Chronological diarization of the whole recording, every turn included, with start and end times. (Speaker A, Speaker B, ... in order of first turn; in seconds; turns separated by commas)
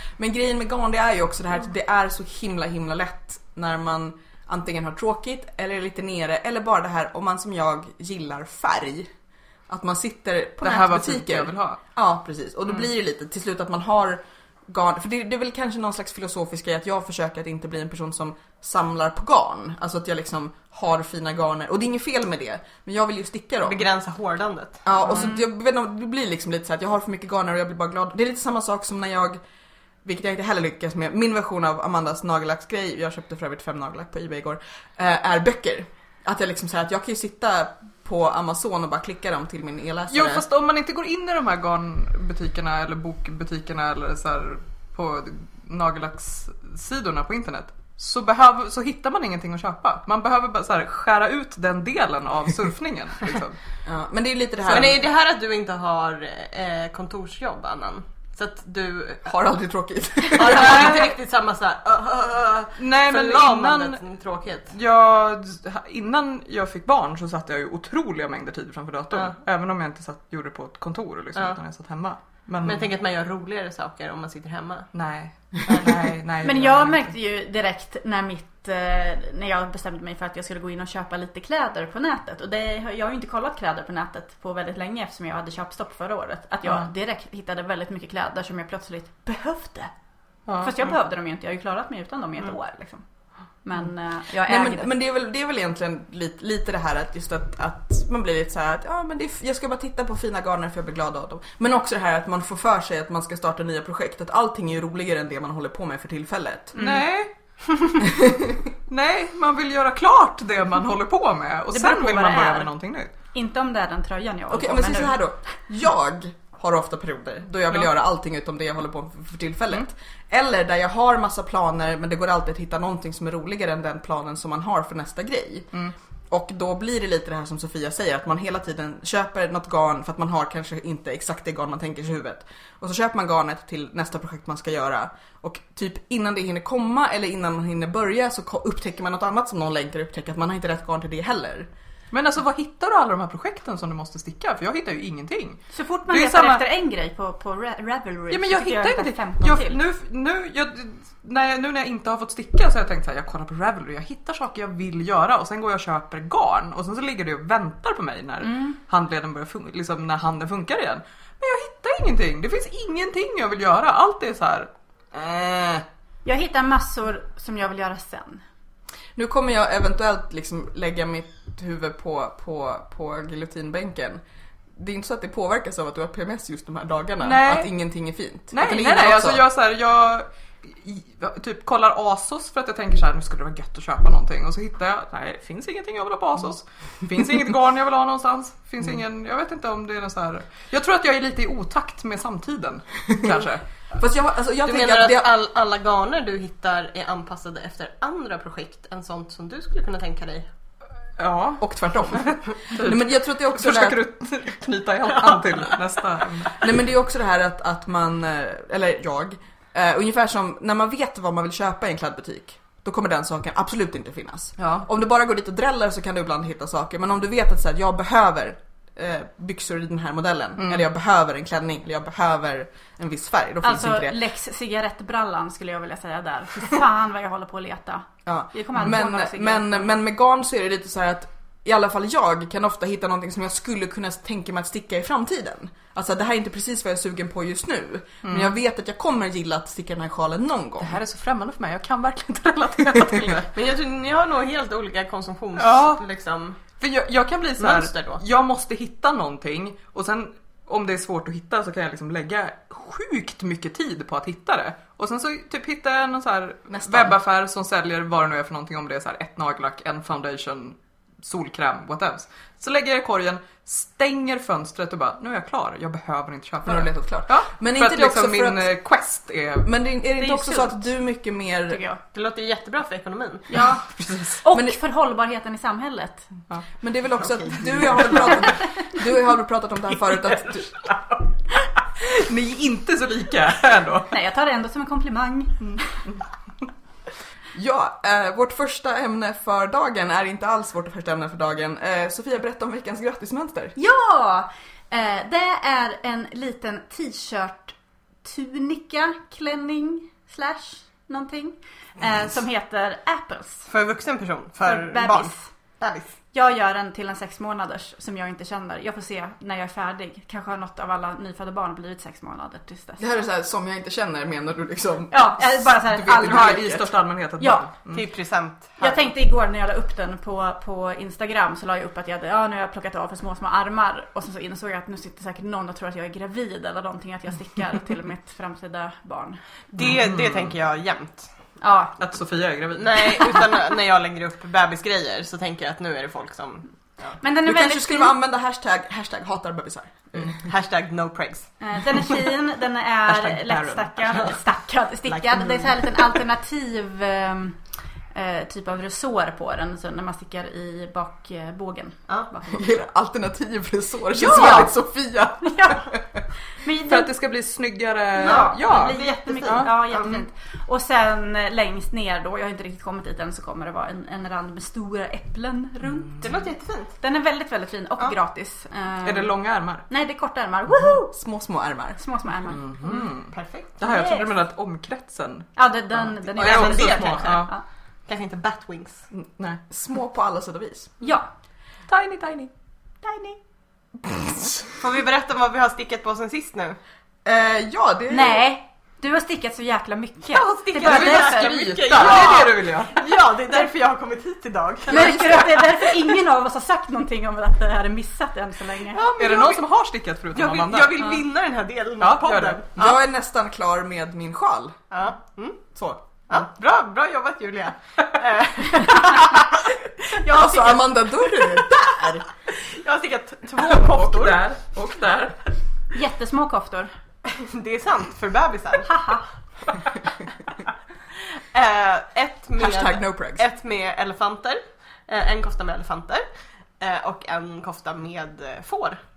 Speaker A: 0.2-9.1, Speaker A: 9.7-23.9, Speaker B: 10.6-11.8, Speaker C: 23.6-24.8, Speaker A: 24.9-29.4, Speaker D: 25.0-25.4, Speaker A: 30.0-40.5, Speaker B: 40.1-53.6, Speaker A: 53.9-55.0, Speaker C: 54.7-59.3, Speaker A: 59.3-61.0, Speaker C: 60.3-64.7, Speaker B: 60.4-61.1, Speaker B: 62.8-64.0, Speaker B: 64.7-72.9, Speaker C: 72.6-74.9, Speaker B: 74.9-77.1, Speaker D: 76.4-89.9, Speaker B: 90.5-90.7, Speaker D: 90.6-93.0, Speaker D: 93.6-94.9, Speaker A: 94.4-106.8, Speaker B: 106.8-107.3, Speaker D: 106.8-107.0, Speaker A: 108.0-108.7, Speaker B: 108.9-113.1, Speaker D: 111.7-112.7, Speaker D: 113.3-115.2, Speaker A: 114.5-125.8, Speaker A: 126.3-141.7, Speaker B: 142.1-146.6, Speaker D: 145.7-149.8, Speaker B: 148.3-165.8, Speaker D: 158.4-158.8, Speaker D: 166.2-168.4, Speaker A: 169.2-174.2, Speaker A: 174.8-179.4, Speaker B: 177.2-177.7, Speaker B: 178.5-193.6, Speaker A: 194.0-195.3, Speaker C: 194.7-200.5, Speaker B: 201.2-206.6, Speaker A: 201.6-204.0, Speaker A: 206.6-224.2, Speaker B: 214.6-214.9, Speaker B: 220.6-220.9, Speaker D: 223.6-229.9, Speaker A: 228.3-241.0, Speaker B: 238.2-238.6, Speaker B: 240.8-243.5, Speaker C: 243.4-246.6, Speaker B: 245.6-246.0, Speaker B: 246.8-269.7, Speaker C: 247.6-248.2, Speaker A: 256.7-257.2, Speaker A: 266.6-268.7, Speaker A: 269.6-271.8, Speaker D: 270.2-270.8, Speaker D: 271.7-272.0, Speaker C: 272.1-273.5, Speaker D: 273.5-273.9, Speaker B: 273.9-274.4, Speaker D: 274.4-276.3, Speaker A: 274.5-274.8, Speaker A: 276.8-280.7, Speaker C: 277.2-278.5, Speaker C: 280.8-281.1, Speaker B: 282.0-284.1, Speaker D: 284.1-285.8, Speaker B: 285.6-286.2, Speaker A: 287.5-293.8, Speaker D: 293.8-303.7, Speaker C: 303.7-306.1, Speaker D: 304.6-305.5, Speaker D: 306.3-313.0, Speaker A: 313.0-316.9, Speaker D: 315.1-316.7, Speaker B: 316.1-318.1, Speaker D: 317.4-317.7, Speaker C: 317.9-319.1, Speaker D: 318.8-329.4, Speaker C: 329.7-331.3, Speaker B: 329.8-330.5, Speaker D: 331.6-331.9, Speaker B: 332.0-333.5, Speaker C: 332.8-337.2, Speaker D: 337.2-338.1, Speaker A: 337.4-340.4, Speaker C: 340.4-341.5, Speaker D: 341.6-347.6, Speaker B: 343.1-344.3, Speaker C: 345.1-345.8, Speaker D: 348.1-352.6, Speaker A: 352.5-356.2, Speaker D: 354.2-354.7, Speaker B: 354.2-354.7, Speaker D: 355.4-355.9, Speaker D: 356.6-357.1, Speaker B: 356.9-359.8, Speaker C: 358.2-360.2, Speaker D: 358.2-366.3, Speaker C: 366.2-366.9, Speaker D: 367.0-369.4, Speaker B: 369.0-369.9, Speaker D: 369.9-371.1, Speaker A: 371.1-372.0, Speaker D: 372.0-372.8, Speaker B: 372.6-377.5, Speaker C: 372.9-373.7, Speaker D: 373.8-374.4, Speaker D: 375.6-377.6, Speaker C: 376.4-377.5, Speaker C: 378.1-379.0, Speaker B: 379.1-379.6, Speaker A: 379.7-380.9, Speaker D: 381.0-381.3, Speaker B: 381.9-382.5, Speaker D: 383.0-383.4, Speaker A: 384.1-384.7, Speaker C: 384.8-386.8, Speaker A: 387.2-388.4, Speaker D: 388.1-392.4, Speaker C: 390.3-396.0, Speaker B: 390.8-393.1, Speaker D: 394.9-399.0, Speaker C: 398.9-399.6, Speaker B: 399.2-401.2, Speaker C: 400.3-403.0, Speaker B: 402.0-402.6, Speaker A: 402.8-404.8, Speaker C: 404.9-405.6, Speaker A: 405.7-406.0, Speaker C: 406.3-411.6, Speaker A: 410.2-412.3, Speaker C: 412.5-414.4, Speaker B: 413.6-415.4, Speaker D: 415.9-416.9, Speaker C: 417.3-419.0, Speaker D: 418.9-419.2, Speaker C: 421.4-426.3, Speaker A: 422.6-423.4, Speaker C: 426.8-429.0